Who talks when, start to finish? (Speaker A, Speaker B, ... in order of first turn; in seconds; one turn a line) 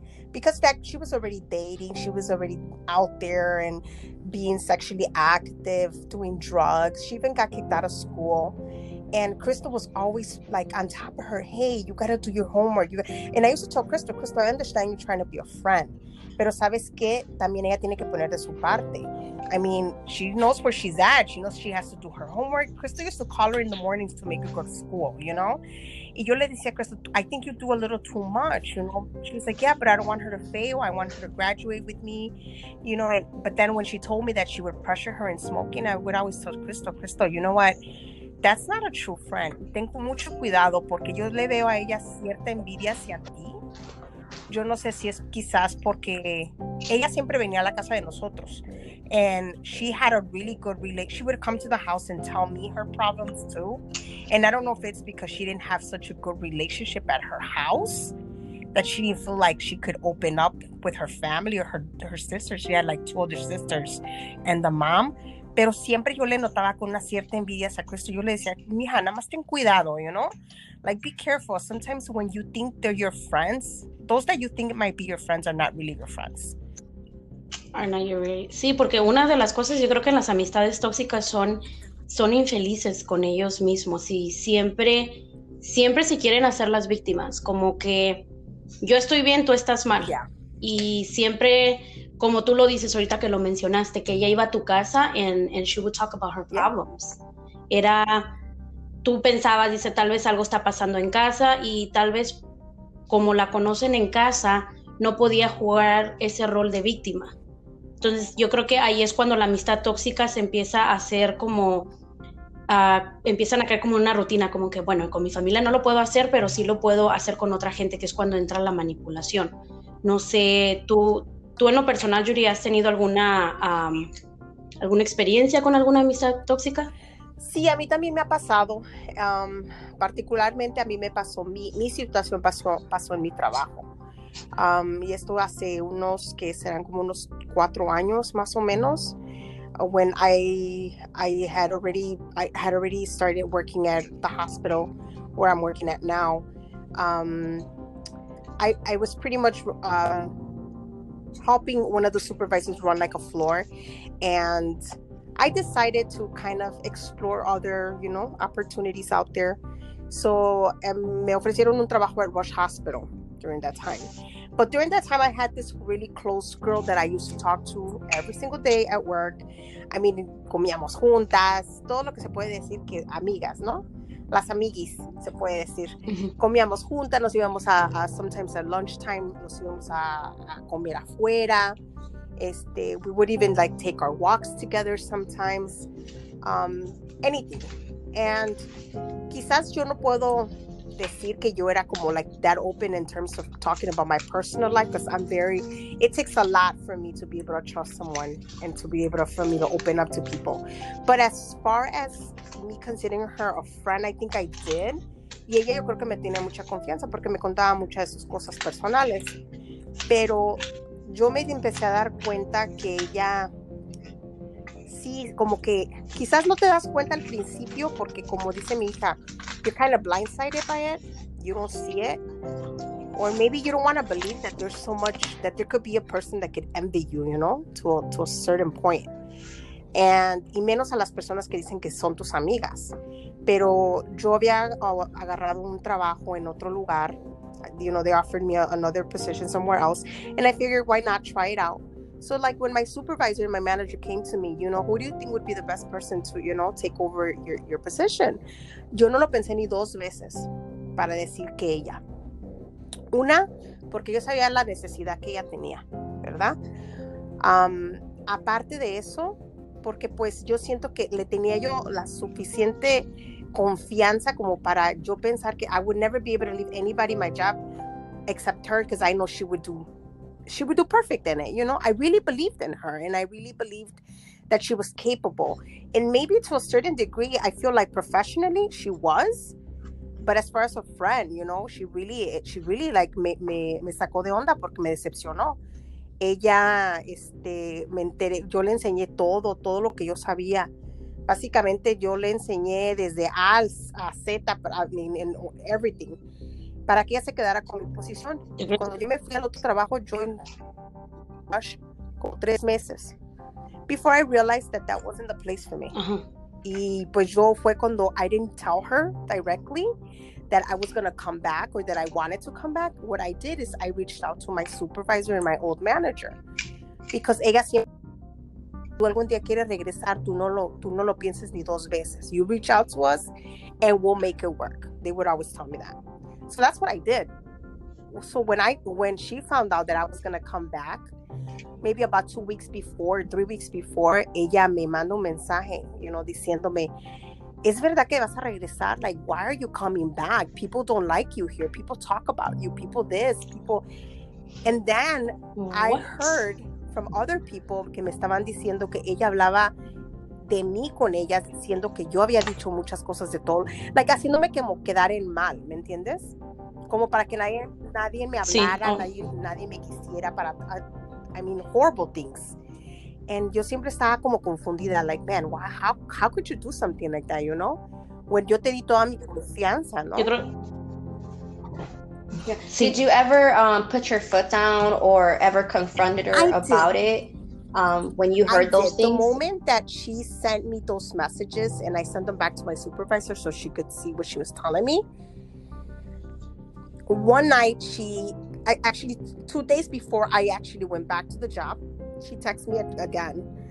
Speaker A: 0.3-8.6
Speaker A: 9.1-25.6
Speaker A: 26.1-37.8
Speaker A: 38.4-43.6
Speaker A: 44.5-58.1
Speaker A: 58.7-70.3
Speaker A: 70.8-76.6
Speaker B: 77.7-88.2
Speaker B: 88.8-97.2
Speaker B: 97.7-98.3
Speaker B: 99.0-102.4
Speaker B: 103.1-107.3
Speaker B: 108.0-111.9
Speaker B: 112.7-124.1
Speaker B: 124.8-126.9
Speaker A: 127.4-133.9
Speaker A: 134.6-139.2
Speaker A: 139.8-147.7
Speaker A: 148.6-150.3
Speaker A: 151.4-153.7
Speaker A: 154.2-154.8
Speaker A: 155.4-181.8
Speaker B: 176.1-176.3
Speaker A: 182.4-185.9
Speaker A: 186.4-188.7
Speaker A: 189.3-209.4
Speaker A: 210.1-213.5
Speaker A: 214.9-222.2
Speaker A: 223.2-229.1
Speaker A: 229.9-248.4
Speaker A: 248.9-252.0
Speaker A: 253.1-256.6
Speaker A: 257.4-267.6
Speaker A: 268.3-269.9
Speaker A: 270.5-279.6
Speaker A: 280.2-285.6
Speaker A: 286.2-290.7
Speaker A: 291.3-296.2
Speaker A: 296.9-300.4
Speaker B: 298.6-298.8
Speaker A: 301.5-303.1
Speaker A: 303.9-305.9
Speaker B: 305.9-306.2
Speaker A: 306.6-309.9
Speaker A: 310.5-316.4
Speaker A: 317.1-317.9
Speaker A: 319.0-323.3
Speaker A: 323.8-327.3
Speaker A: 328.1-331.1
Speaker A: 331.8-336.9
Speaker A: 337.6-343.8
Speaker A: 344.6-349.7
Speaker B: 345.5-346.4
Speaker A: 350.4-356.3
Speaker A: 356.9-360.8
Speaker B: 358.4-359.0
Speaker A: 361.3-362.6
Speaker A: 363.3-370.3
Speaker B: 370.2-370.5
Speaker C: 372.4-379.4
Speaker A: 376.3-376.9
Speaker A: 378.5-385.0
Speaker A: 387.1-393.5